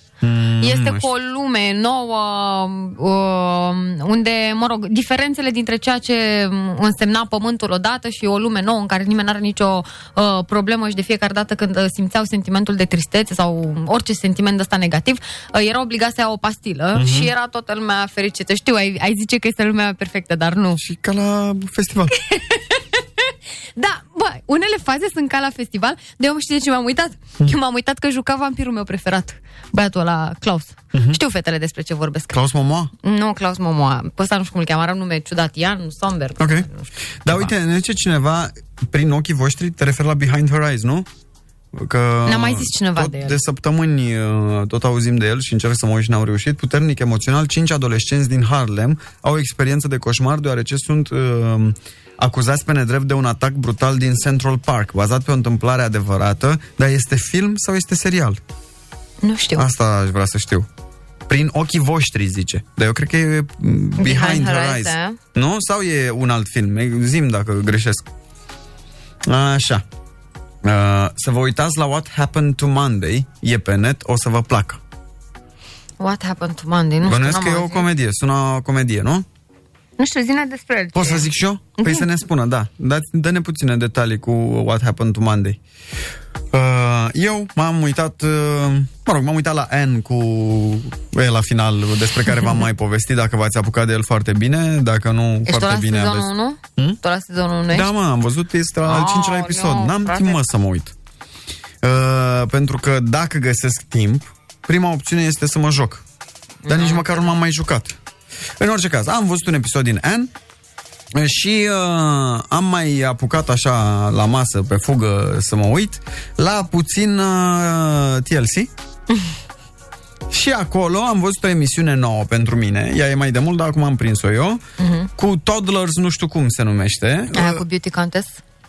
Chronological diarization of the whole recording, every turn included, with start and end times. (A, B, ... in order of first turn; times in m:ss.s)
0:00.2-0:01.1 A
0:00.6-0:20.8 B
0:17.0-0:17.3 A
0:20.8-0:22.1 A
0:22.2-0:32.4 B
0:30.9-0:31.2 A
0:32.3-0:32.9 A
0:33.0-0:37.5 B
0:36.4-0:36.7 A
0:37.2-0:41.1 A
0:41.7-0:58.4 A
0:42.3-0:43.4 B
0:59.2-0:59.7 B
0:59.6-1:00.7 A
1:01.3-1:08.0 A
1:04.0-1:05.2 B
1:09.2-1:09.8 A
1:10.6-1:14.8 A
1:16.0-1:17.9 B
1:17.0-1:19.3 A
1:20.0-1:22.0 B
1:20.9-1:25.6 A
1:26.5-1:37.0 A
1:35.5-1:37.9 B
1:37.7-1:41.0 A
1:38.8-1:40.4 B
1:41.8-1:46.0 A
1:46.6-1:47.3 B
1:46.7-1:48.0 A
1:48.6-1:50.3 A
1:51.1-1:58.7 A
2:00.3-2:04.6 A
2:04.8-2:05.1 B
2:05.2-2:07.6 A
2:07.3-2:08.4 B